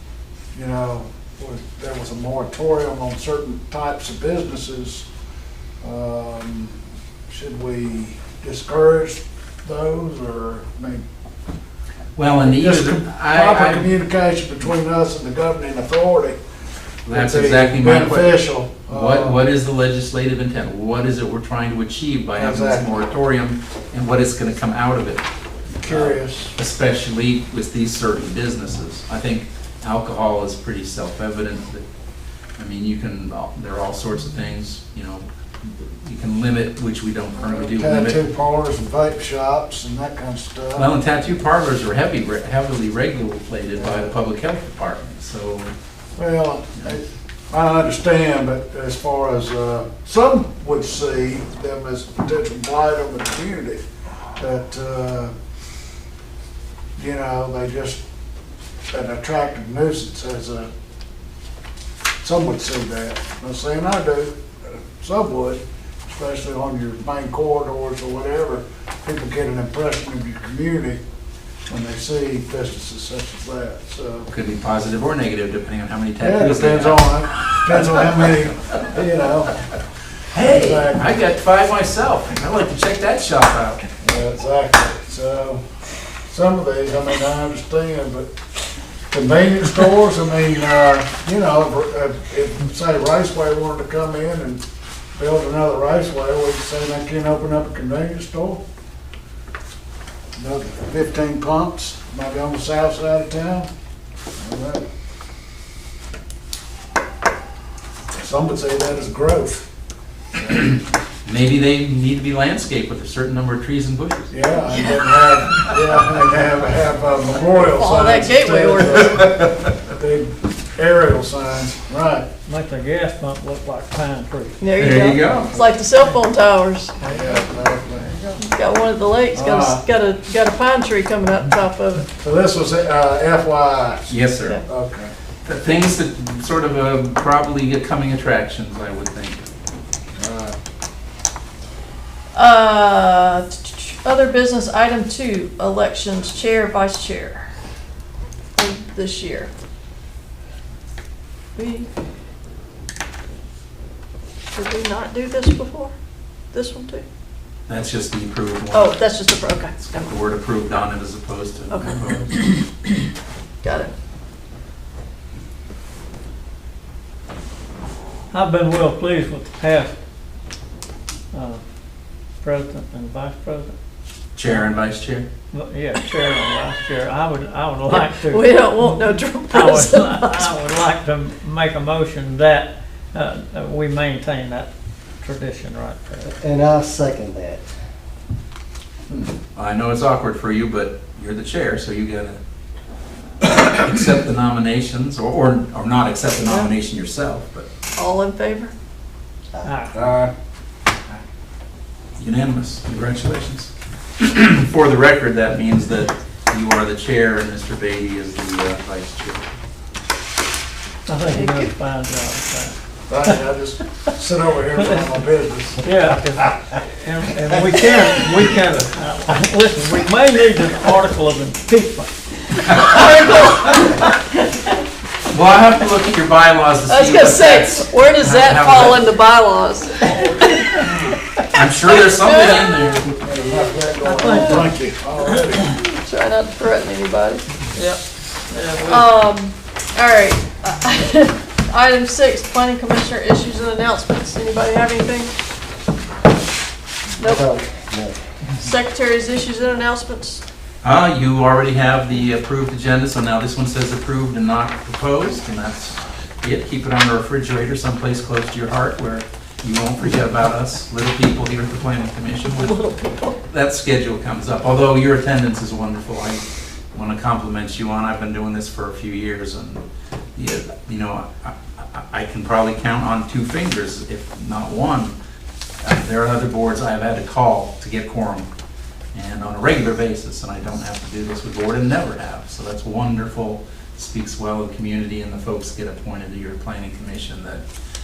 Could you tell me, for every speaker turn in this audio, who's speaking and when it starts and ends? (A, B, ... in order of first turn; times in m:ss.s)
0:00.5-0:05.1 A
0:05.8-0:06.8 A
0:07.3-0:11.0 A
0:12.1-0:13.9 B
0:12.4-0:16.4 A
0:17.1-0:19.4 A
0:17.1-0:25.2 B
0:22.4-0:23.0 A
0:25.8-0:26.5 A
0:25.8-0:31.8 B
0:32.6-0:38.2 B
0:37.5-0:40.9 A
0:40.8-0:45.7 B
0:43.8-0:44.1 A
0:46.2-0:53.8 A
0:54.4-0:55.3 A
0:57.0-0:58.0 A
0:58.9-1:00.7 A
1:02.2-1:11.0 A
1:11.7-1:14.3 A
1:14.3-1:18.5 B
1:16.2-1:19.5 A
1:20.3-1:23.8 B
1:20.4-1:21.1 A
1:24.0-1:25.6 A
1:26.3-1:28.3 A
1:29.1-1:34.6 A
1:35.2-1:38.6 A
1:40.4-1:43.7 A
1:44.4-1:44.8 A
1:48.2-1:49.7 A
1:50.4-1:54.3 B
1:54.3-2:02.3 A
1:57.7-1:59.3 C
1:59.4-1:59.7 B
2:02.5-2:04.6 D
2:04.6-2:06.9 C
2:04.8-2:05.5 B
2:07.0-2:07.4 D
2:07.1-2:08.4 A
2:08.4-2:12.1 C
2:09.3-2:09.8 A
2:12.2-2:14.1 A
2:14.1-2:14.6 B
2:14.7-2:15.1 A
2:15.4-2:19.4 B
2:20.2-2:20.6 A
2:22.3-2:27.5 C
2:28.6-2:29.5 C
2:31.6-2:31.9 C
2:34.5-2:35.9 C
2:36.5-2:37.0 C
2:37.7-2:39.1 B
2:38.7-2:40.1 C
2:39.8-2:42.4 B
2:41.7-2:42.6 C
2:43.6-2:43.9 C
2:48.3-2:49.9 D
2:51.3-2:51.6 D
2:52.4-2:53.7 D
2:54.4-2:55.3 B
2:55.5-3:06.3 D
2:57.9-3:00.5 C
3:06.2-3:07.7 E
3:09.2-3:12.4 B
3:13.4-3:17.7 B
3:18.0-3:18.7 C
3:19.5-3:20.3 E
3:19.6-3:20.0 D
3:22.2-3:29.4 B
3:31.1-3:33.4 D
3:31.2-3:31.7 C
3:33.1-3:35.9 A
3:35.8-3:42.8 D
3:42.7-3:44.1 C
3:45.3-3:49.0 B
3:46.9-3:50.7 C
3:51.5-3:53.0 B
3:52.1-3:53.0 C
3:53.1-3:55.7 A
3:54.0-3:54.7 D
3:55.6-3:57.4 C
3:57.7-3:58.0 D
3:58.5-3:59.1 D
3:58.8-4:05.3 C
4:07.2-4:07.5 C
4:07.2-4:08.2 E
4:08.6-4:10.4 C
4:10.8-4:22.8 B
4:22.5-4:23.4 C
4:23.5-4:29.8 B
4:30.4-4:35.1 B
4:35.8-4:38.5 B
4:39.1-4:47.6 B